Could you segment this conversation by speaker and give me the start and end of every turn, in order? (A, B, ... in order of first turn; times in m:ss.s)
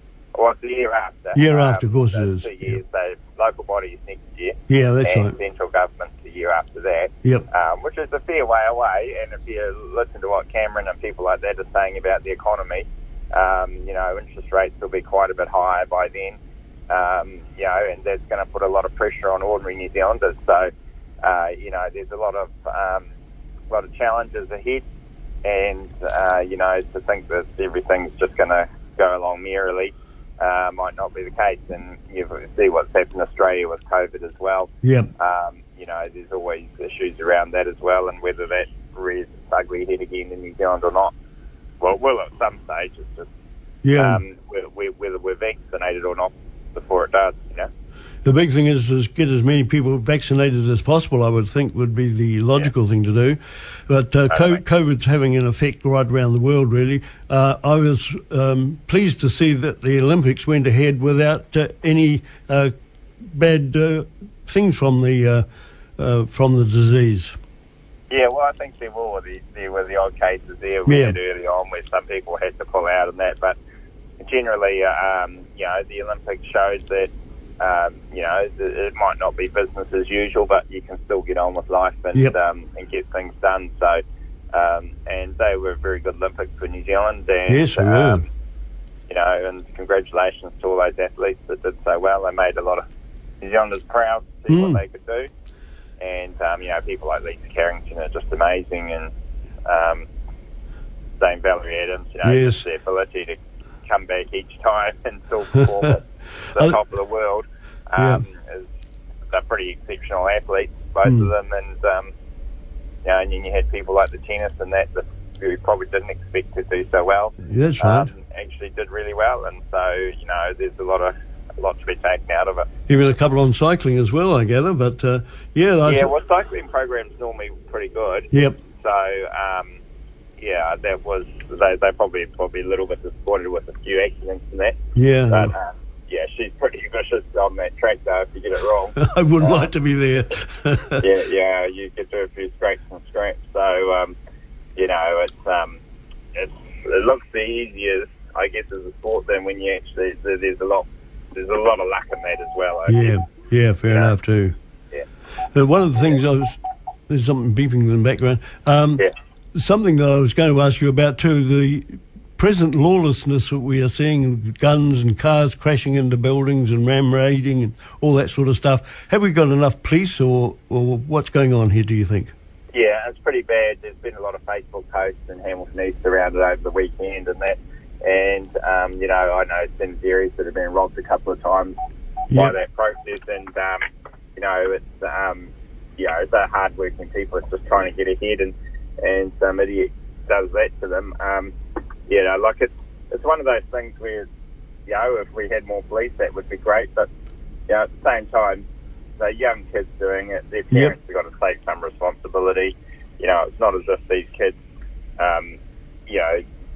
0:00.3-0:16.4 A
0:01.3-0:02.8 B
0:04.7-0:05.3 B
0:16.9-0:20.7 A
0:21.2-0:23.1 A
0:23.7-0:24.8 A
0:25.4-0:41.1 A
0:34.8-0:35.1 B
0:41.8-0:43.3 A
0:43.8-0:44.2 B
0:44.0-0:47.7 A
0:48.2-1:05.4 B
0:54.3-0:54.6 A
1:06.0-1:07.4 B
1:08.1-1:13.6 A
1:10.9-1:11.2 B
1:14.2-1:28.2 A
1:27.5-1:28.2 B
1:29.1-1:32.8 A
1:33.4-1:35.3 A
1:34.5-1:34.8 B
1:36.0-1:39.1 A
1:39.6-1:40.1 A
1:41.2-1:48.7 A
1:42.2-1:42.6 B
1:48.0-1:48.2 B
1:49.3-1:52.1 A
1:51.0-1:51.3 B
1:53.0-2:02.7 A
1:57.4-1:58.1 B
2:02.9-2:06.1 B
2:05.8-2:09.8 A
2:08.3-2:08.6 B
2:10.4-2:14.8 A
2:14.9-2:15.5 B
2:15.3-2:19.7 A
2:19.0-2:21.0 B
2:21.0-2:24.2 A
2:24.8-2:25.8 A
2:26.3-2:33.1 A
2:32.9-2:34.6 B
2:33.9-2:34.2 A
2:35.5-2:36.6 B
2:37.1-2:39.0 B
2:39.5-2:52.3 B
2:52.7-3:01.8 A
3:02.3-3:03.8 A
3:04.4-3:11.5 A
3:12.1-3:14.3 A
3:14.9-3:17.1 A
3:17.7-3:18.6 A
3:19.2-3:24.6 A
3:25.2-3:26.4 A